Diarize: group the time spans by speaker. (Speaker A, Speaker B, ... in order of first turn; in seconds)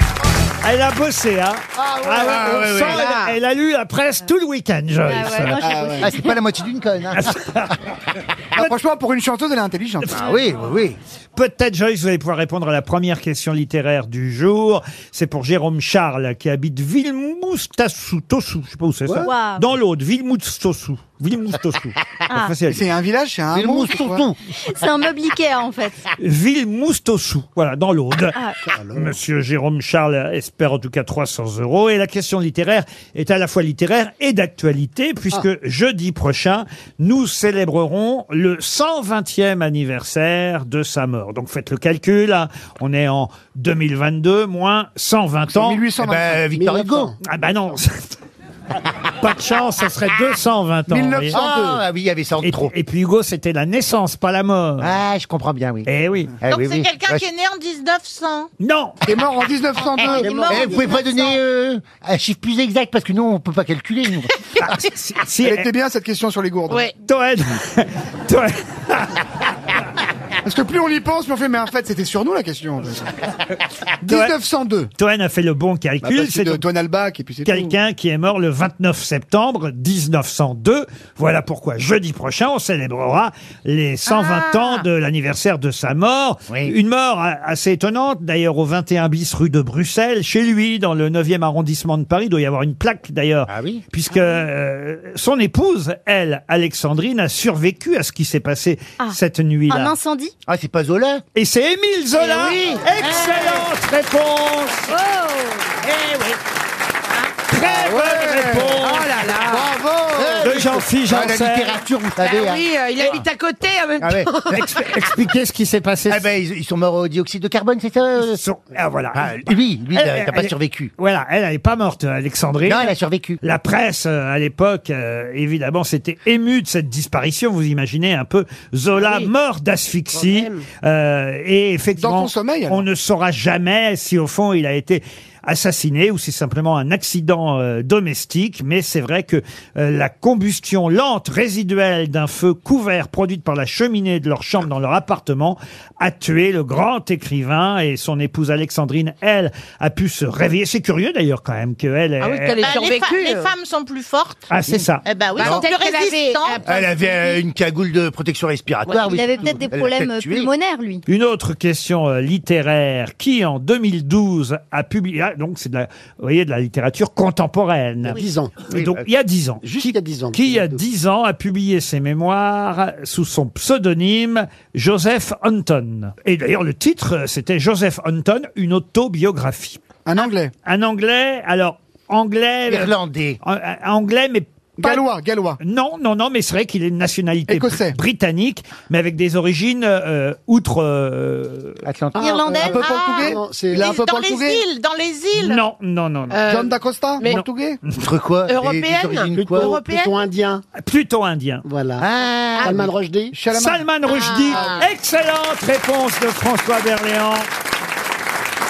Speaker A: 0.6-5.6, 7.1-7.8, 11.3-22.8, 26.2-28.4, 28.9-45.8, 47.2-48.2, 49.2-51.4, 52.4-54.9, 55.8-56.3, 58.6-59.0, 64.6-65.7, 67.0-69.2, 74.0-74.3, 74.9-76.6, 77.4-99.9, 101.3-104.9, 107.5-109.1, 110.4-111.8, 114.5-116.2, 118.2-152.6, 154.5-155.0, 161.1-179.8, 180.6-185.1, 185.6-191.8, 195.3-196.4, 197.3-198.0, 200.8-201.6, 203.5-207.5
Speaker B: 1.8-3.0, 5.6-6.1, 8.5-10.2, 22.7-24.3, 45.5-46.4, 50.9-51.8, 59.0-60.5, 65.4-66.9, 70.4-73.1, 74.0-74.9, 76.0-77.7, 107.6-110.7, 132.0-132.8, 180.0-180.5, 184.8-185.6, 187.5-188.0, 192.6-194.6, 196.5-197.8, 203.3-203.9, 204.5-204.8
Speaker C: 2.2-3.1, 6.0-7.7, 10.1-11.0, 23.5-24.4, 46.0-47.1, 51.3-52.7, 54.8-55.9, 56.4-57.3, 60.5-64.3, 86.5-86.7, 93.5-93.8, 100.5-101.2, 102.5-103.6, 105.8-106.4, 110.1-113.2, 114.0-114.3, 116.1-118.4, 119.1-120.9, 122.7-123.4, 155.3-155.7, 156.6-160.5, 168.7-169.0, 182.7-183.4, 191.8-192.4, 198.0-199.8, 202.0-202.9
Speaker D: 2.7-3.3, 102.2-103.6, 108.8-109.8, 112.2-115.0, 128.9-129.3, 130.1-130.7, 152.2-153.5, 155.3-157.4, 158.9-159.2, 196.3-197.4, 198.5-200.2, 202.6-202.9, 204.1-204.9
Speaker E: 5.0-6.4, 19.2-19.7, 22.3-22.5, 24.6-26.0, 99.7-100.3, 104.9-105.5, 159.0-161.0
Speaker F: 28.6-29.2, 46.5-47.1, 60.1-61.0, 168.1-168.6, 169.6-170.8, 192.1-194.0, 199.3-200.6, 201.6-202.1, 202.6-203.3
Speaker G: 56.4-58.5, 59.9-60.6, 84.1-84.8, 152.6-154.4, 155.1-156.6, 192.2-195.6